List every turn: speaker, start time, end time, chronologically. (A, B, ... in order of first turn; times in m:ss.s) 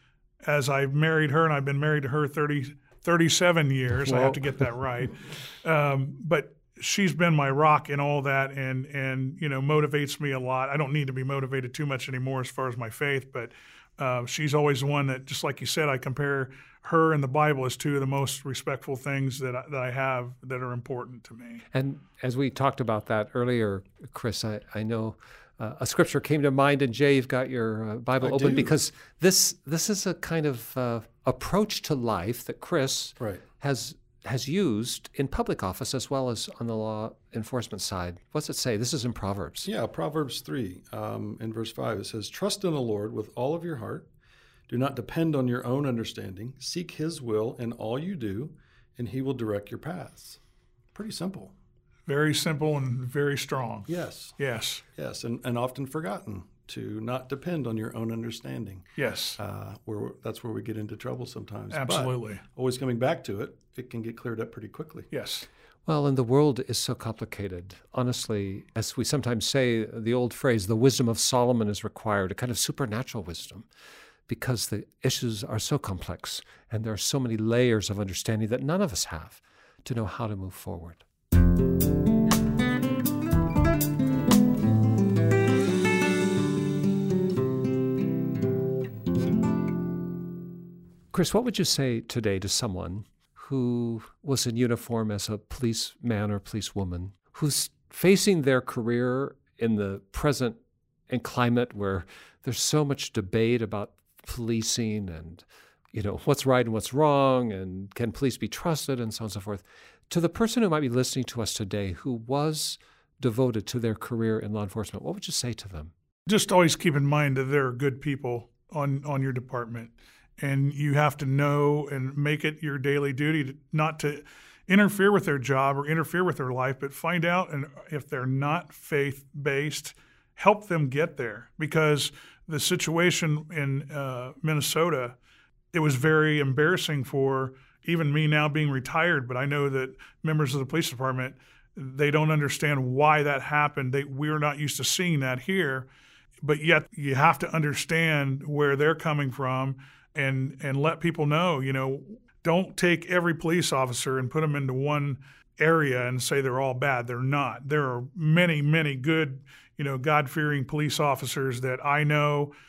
0:00.4-0:21.6 A
0:03.9-0:05.0 B
0:21.7-0:39.7 B
0:28.2-0:28.8 C
0:39.6-0:44.1 C
0:44.7-0:50.4 C
0:51.0-0:51.5 C
0:52.1-0:54.8 A
0:53.9-0:54.4 C
0:55.0-0:58.9 C
0:59.0-0:59.4 A
0:59.4-1:05.1 C
1:01.7-1:02.5 A
1:05.1-1:05.5 A
1:05.9-1:13.7 B
1:14.3-1:21.0 B
1:31.1-1:40.6 B
1:41.1-1:55.9 B
1:56.3-2:15.2 A
2:15.7-2:25.9 A
2:26.4-2:42.5 A